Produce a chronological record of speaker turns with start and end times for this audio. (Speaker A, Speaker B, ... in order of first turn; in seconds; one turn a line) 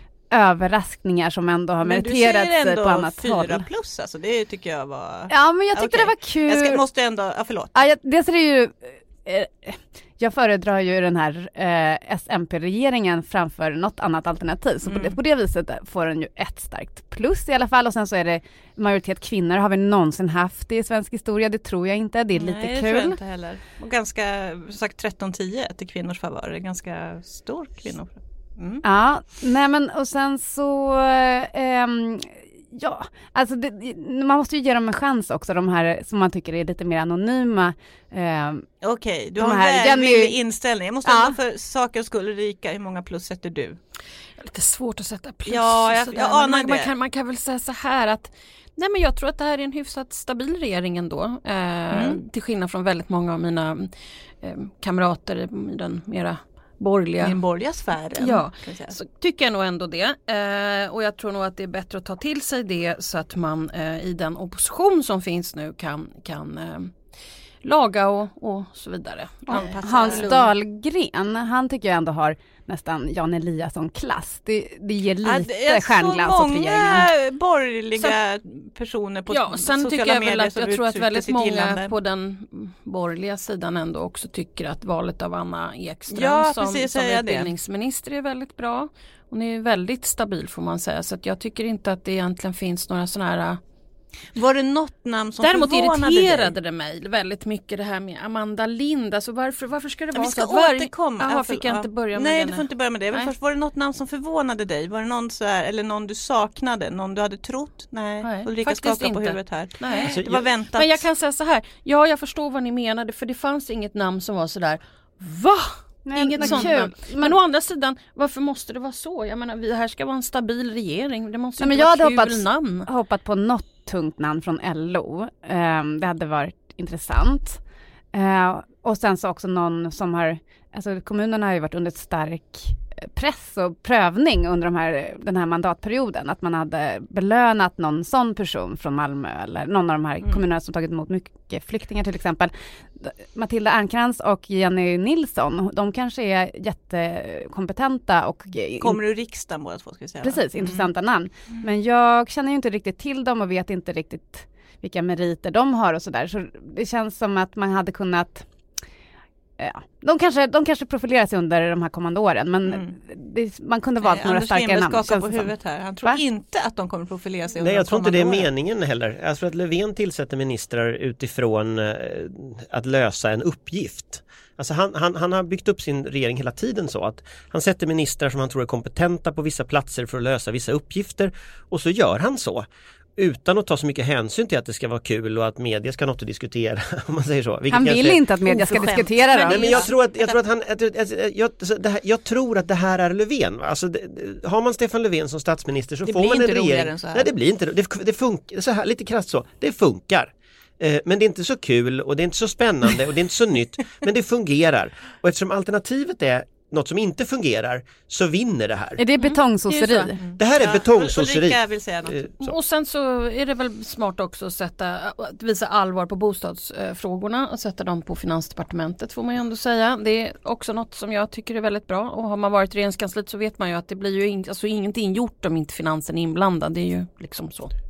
Speaker A: 0.3-3.6
Speaker B: 1.8-7.7
Speaker A: 5.3-6.8
Speaker A: 7.7-23.2
Speaker B: 14.8-15.2
Speaker B: 22.3-28.8
Speaker A: 28.8-38.6
Speaker B: 38.8-43.8
Speaker A: 39.4-40.4
Speaker A: 41.0-41.4
Speaker C: 44.4-57.4
Speaker B: 45.5-46.9
Speaker B: 51.9-52.2
Speaker B: 57.2-58.9
Speaker C: 58.2-66.9
Speaker C: 67.6-70.2
Speaker B: 69.5-70.5
Speaker A: 69.5-77.1
Speaker B: 75.2-81.9
Speaker C: 79.3-93.6
Speaker B: 86.1-87.5
Speaker B: 94.3-96.5
Speaker C: 95.4-103.3
Speaker B: 100.1-111.0
Speaker C: 108.2-110.1
Speaker D: 110.1-110.5
Speaker C: 110.7-122.9
Speaker A: 116.0-117.4
Speaker B: 116.4-116.7
Speaker A: 121.6-127.6
Speaker A: 128.1-149.0
Speaker B: 148.8-150.9
Speaker A: 150.2-158.4
Speaker A: 159.6-165.5
Speaker B: 162.7-162.9
Speaker B: 164.0-168.5
Speaker D: 167.6-182.7
Speaker D: 183.2-209.0
Speaker A: 187.7-189.8
Speaker B: 188.4-190.4
Speaker B: 196.0-197.3
Speaker A: 209.0-210.2
Speaker C: 209.7-210.1
Speaker B: 210.2-212.2
Speaker D: 210.4-212.6
Speaker C: 212.4-227.7